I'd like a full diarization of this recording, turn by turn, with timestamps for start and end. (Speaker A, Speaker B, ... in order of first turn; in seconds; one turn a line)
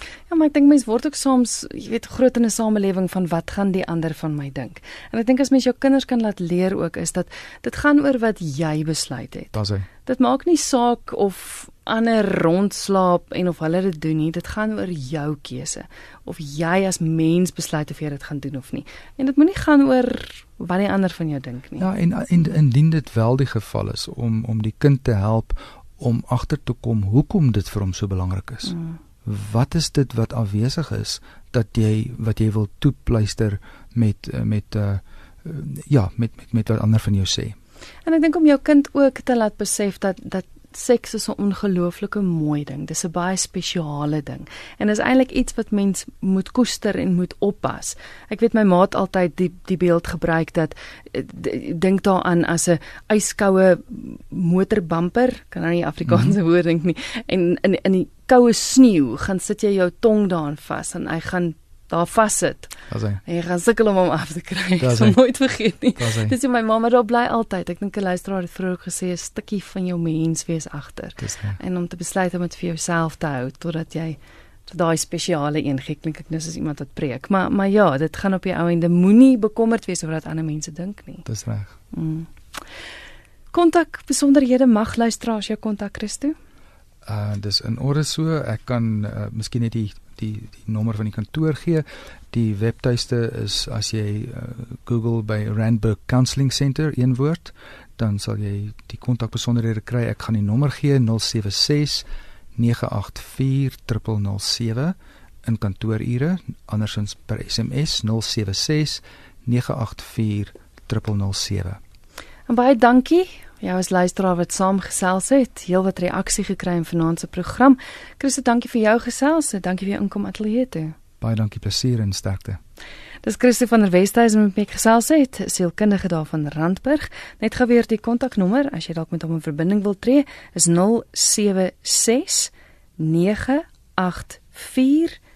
Speaker A: 0.3-9.5
Speaker B: 9.5-9.9
Speaker A: 10.1-21.8
Speaker B: 21.8-37.5
Speaker A: 28.7-28.9
Speaker A: 38.0-62.7
Speaker B: 56.1-56.3
Speaker B: 62.9-63.2
Speaker A: 63.2-81.2
Speaker B: 64.8-65.2
Speaker B: 66.0-66.3
Speaker B: 71.2-71.6
Speaker B: 81.2-81.8
Speaker A: 81.9-82.3
Speaker A: 83.5-86.3
Speaker B: 87.0-111.8
Speaker A: 112.5-120.9
Speaker B: 121.2-122.6
Speaker A: 123.2-135.2